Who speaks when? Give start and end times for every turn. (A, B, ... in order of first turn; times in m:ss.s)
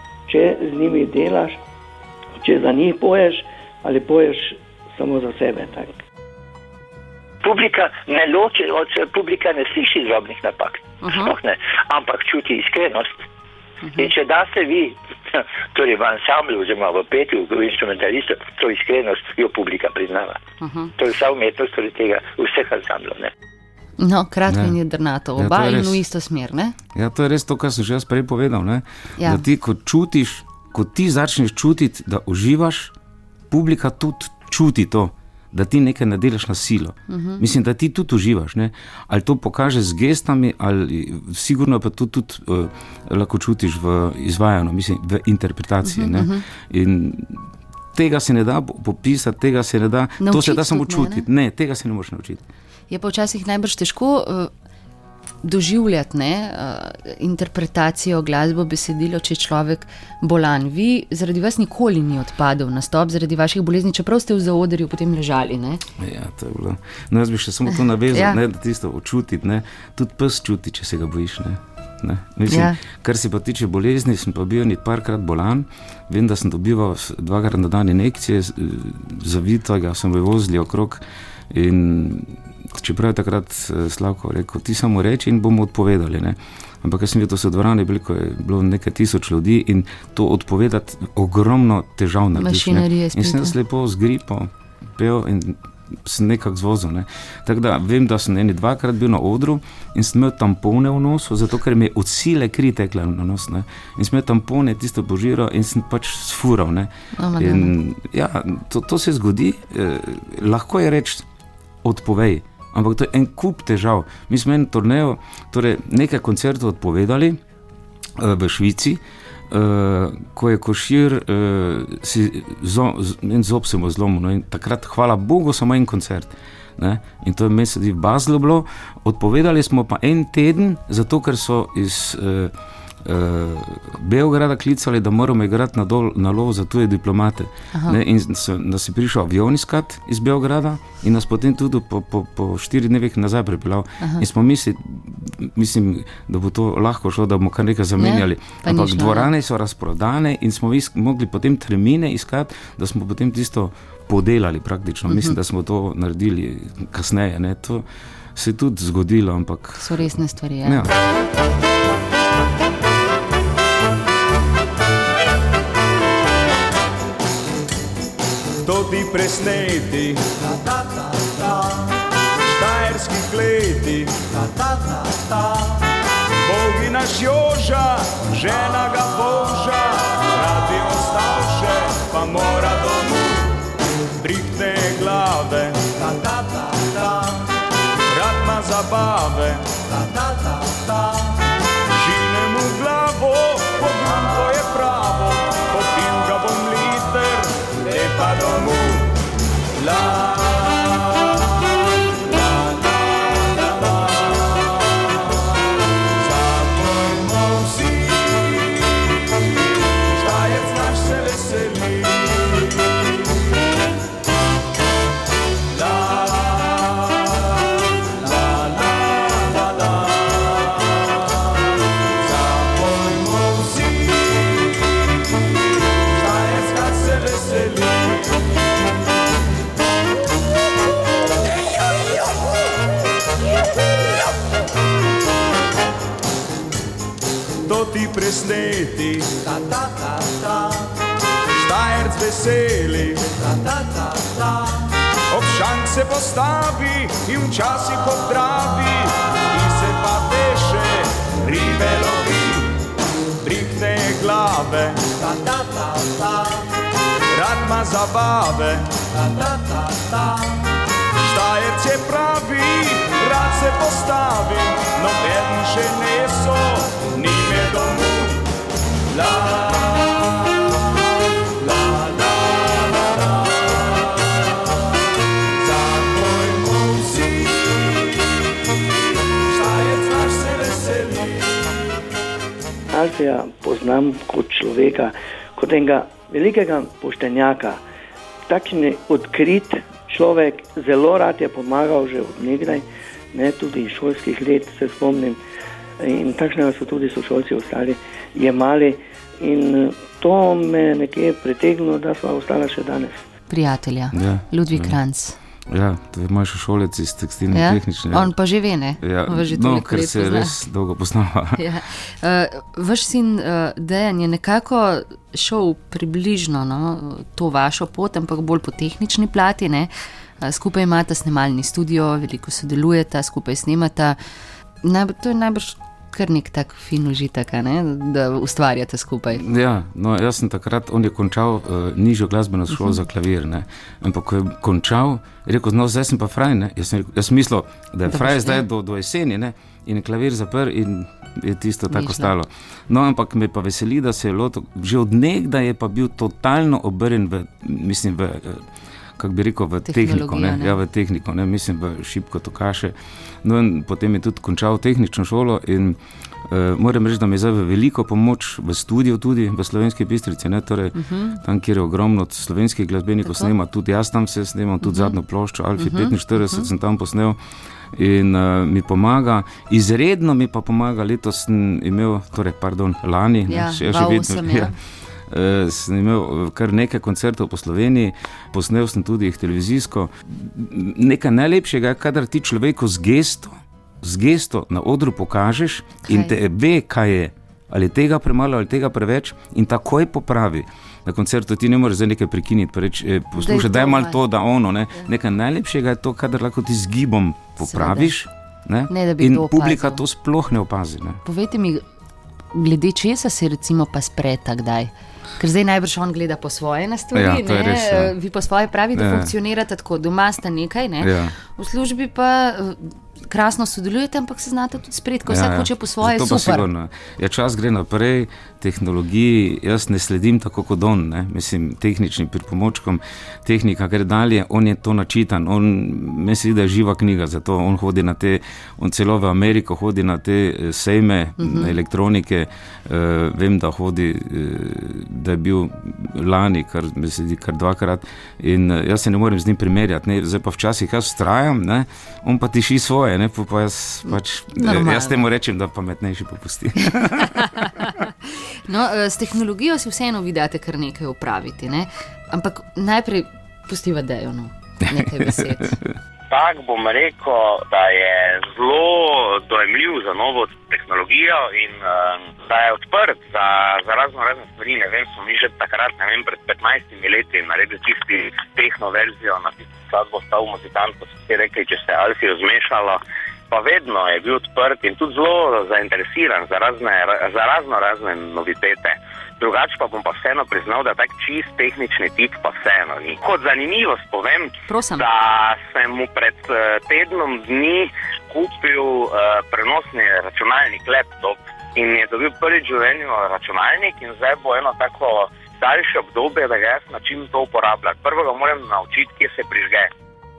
0:00.3-0:01.6 A
0:02.4-0:05.9 A
0:07.4-0:13.2 B
0:11.0-0:11.3 C
0:13.9-0:20.4 B
0:20.6-0:20.9 C
0:21.0-0:23.3 B
0:24.0-0:26.7 C
0:24.5-0:24.7 D
0:25.4-0:26.0 D
0:26.9-0:32.9 D
0:33.5-0:52.4 D
0:37.1-0:37.4 C
0:45.8-0:46.4 C
0:50.2-0:51.2 C
0:52.9-0:54.5 C
0:55.4-1:05.8 C
1:06.0-1:51.2 D
1:08.0-1:08.4 C
1:12.5-1:12.8 C
1:32.4-1:33.5 C
1:47.2-1:47.7 C
1:51.8-1:57.4 D
1:58.2-2:12.5 D
2:13.0-2:40.9 D
2:17.7-2:18.0 C
2:28.0-2:29.3 C
2:35.1-2:35.4 C
2:39.8-2:40.8 C
2:48.6-2:50.5 E
2:51.3-2:51.5 E
2:52.4-2:55.6 E
2:56.4-3:03.6 E
3:04.2-3:07.3 E
3:08.1-3:11.1 E
3:11.9-3:19.1 E
3:19.8-3:21.4 E
3:22.2-3:24.6 E
3:26.2-3:28.6 E
3:29.9-3:32.9 E
3:35.7-3:37.4 E
3:38.1-3:41.0 E
3:42.2-3:44.4 E
3:46.1-3:48.4 E
3:57.6-3:59.6 E
4:01.5-4:03.5 E
4:05.3-4:12.8 E
4:13.4-4:16.2 E
4:17.3-4:19.1 E
4:21.2-4:28.4 E
4:29.1-4:30.3 E
4:31.6-4:33.2 E
4:35.6-4:37.6 E
4:39.5-4:41.5 E
4:42.9-4:47.8 A
4:48.5-4:55.4 A
4:56.0-5:03.2 A
5:03.5-5:05.4 C
5:04.1-5:05.0 D
5:05.7-5:08.3 D
5:07.5-5:10.6 C
5:09.0-5:11.6 D
5:11.6-5:24.2 C
5:24.8-5:29.4 C
5:29.3-5:48.6 D
5:38.1-5:38.6 C
5:41.9-5:42.3 C
5:49.2-6:07.4 D
5:49.8-5:50.8 C
6:01.0-6:01.4 C
6:03.2-6:03.5 C
6:04.8-6:05.2 C
6:05.8-6:06.7 C
6:07.9-6:14.8 D
6:13.5-6:14.7 C
6:15.3-6:41.2 D
6:26.0-6:26.3 C
6:33.4-6:34.2 C
6:37.6-6:38.1 C
6:38.9-6:40.0 C
6:41.2-6:41.8 C
6:42.5-6:56.7 C
6:47.1-6:48.1 D
6:48.9-6:49.3 D
6:51.0-6:51.3 D
6:55.2-7:27.6 D
7:11.4-7:11.7 C
7:24.1-7:25.2 C
7:27.0-7:35.8 C
7:34.9-7:35.7 D
7:36.3-8:19.9 F
8:04.7-8:05.0 C